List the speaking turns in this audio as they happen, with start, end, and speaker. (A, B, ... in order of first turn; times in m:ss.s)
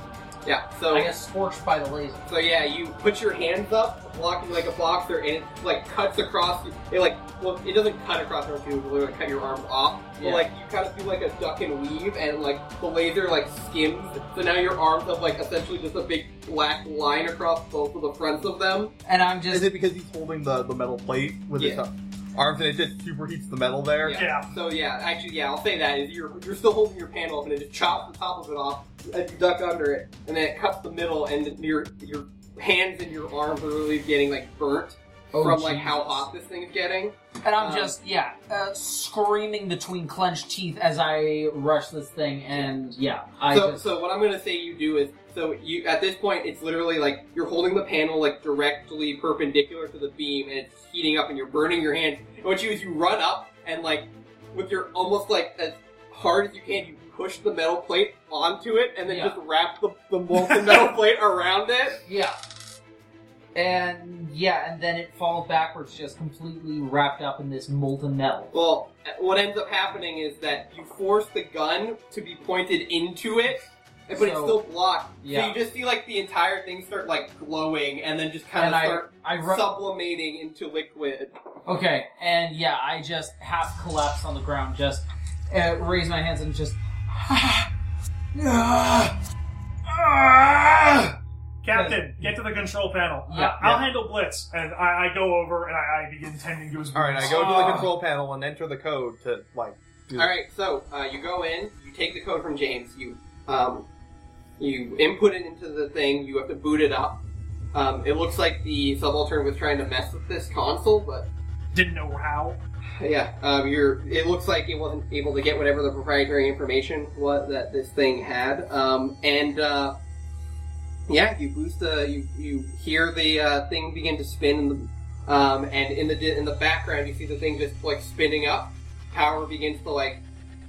0:00.4-0:01.1 A
0:00.9-0:02.3 B
0:02.3-0:18.9 A
0:10.2-0:10.5 B
0:19.1-0:19.7 B
0:19.5-0:24.2 C
0:21.6-0:21.8 A
0:24.0-0:38.0 A
0:24.1-0:24.5 D
0:35.3-0:36.3 B
0:37.4-0:43.8 B
0:43.5-1:02.0 A
0:59.1-0:59.4 B
1:02.0-1:02.4 B
1:03.6-1:08.5 B
1:08.5-1:21.3 A
1:14.1-1:14.6 B
1:15.2-1:15.6 B
1:18.6-1:19.6 B
1:21.7-1:27.7 B
1:28.3-1:29.2 B
1:29.9-1:31.2 B
1:31.6-1:37.8 D
1:31.7-1:32.0 B
1:33.3-1:33.7 B
1:36.9-1:40.3 C
1:37.2-1:37.9 B
1:40.2-1:43.9 A
1:44.6-1:47.2 A
1:47.7-1:51.3 A
1:51.7-1:52.6 D
1:53.0-2:00.0 A
2:01.1-2:10.2 A